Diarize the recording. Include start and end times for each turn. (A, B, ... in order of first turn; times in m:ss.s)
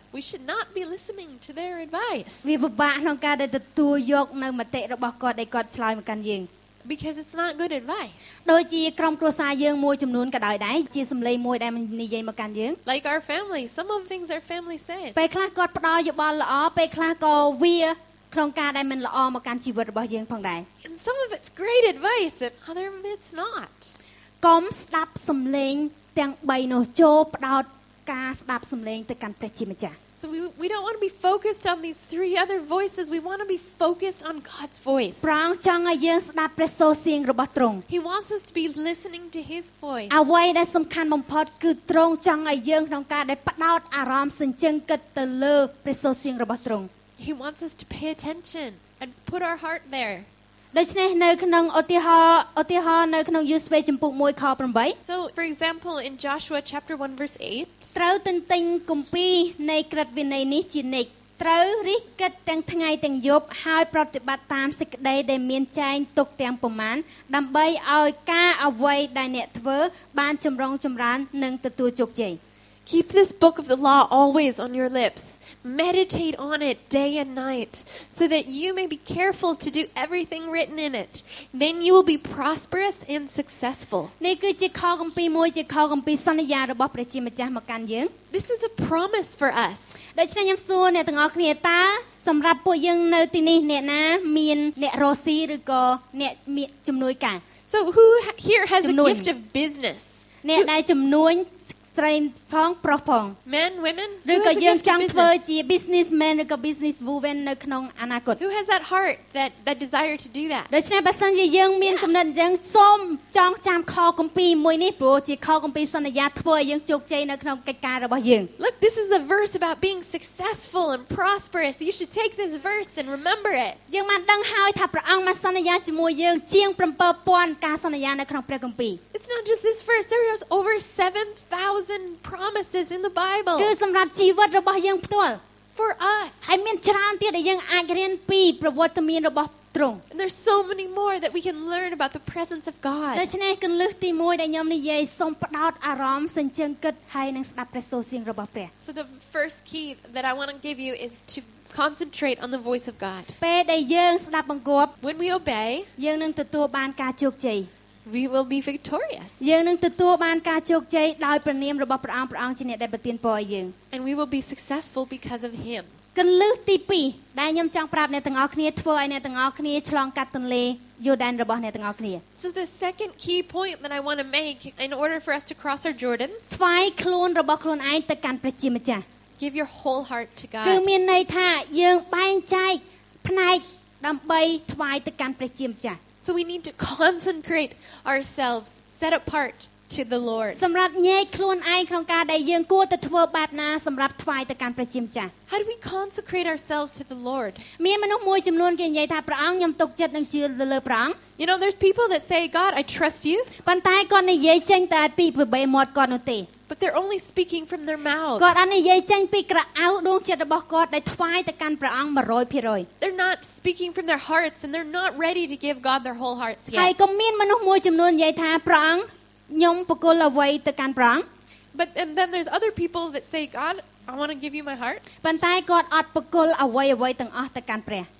0:00.1-0:02.5 A
0:02.4-0:06.5 B
0:06.8-0:08.2 A
0:08.4-0:12.8 B
0:12.8-0:15.2 A
0:15.2-0:20.7 B
0:20.8-0:23.9 A
0:24.4-0:30.0 B
0:30.2-0:35.3 A
0:35.2-0:37.8 B
0:37.9-0:40.1 A
0:40.1-0:46.9 B
0:47.2-0:50.3 A
0:50.7-0:55.0 B
0:55.0-0:57.9 A
0:57.9-1:12.4 B
1:12.8-1:24.1 A
1:24.2-1:28.1 B
1:28.3-1:30.0 A
1:30.1-1:37.4 B
1:37.7-1:40.7 A
1:38.8-1:39.3 B
1:40.4-1:43.4 B
1:43.4-1:45.3 A
1:44.2-1:48.4 B
1:48.4-1:50.7 A
1:50.7-1:58.5 B
1:58.6-2:03.8 A
2:03.9-2:09.0 B
2:09.1-2:13.7 A
2:13.6-2:15.4 B
2:15.8-2:16.4 A
2:16.4-2:20.0 B
2:20.1-2:23.3 A
2:23.1-2:28.7 B
2:28.8-2:33.3 A
2:33.4-2:34.9 B
2:35.0-2:35.9 A
2:36.0-2:37.7 B
2:38.0-2:39.4 A
2:39.4-2:43.7 B
2:43.9-2:45.9 A
2:46.1-2:52.2 B
2:52.3-2:56.4 A
2:56.5-2:59.0 B
2:59.4-3:00.8 A
3:00.6-3:06.0 B
3:06.2-3:10.6 A
3:10.5-3:15.3 B
3:15.5-3:17.6 A
3:17.8-3:21.2 B
3:21.4-3:23.5 A
3:23.6-3:26.5 B
3:26.7-3:28.6 A
3:28.4-3:32.9 B
3:33.0-3:37.0 A
3:36.7-3:41.2 B
3:41.7-3:45.0 A
3:45.2-3:48.1 B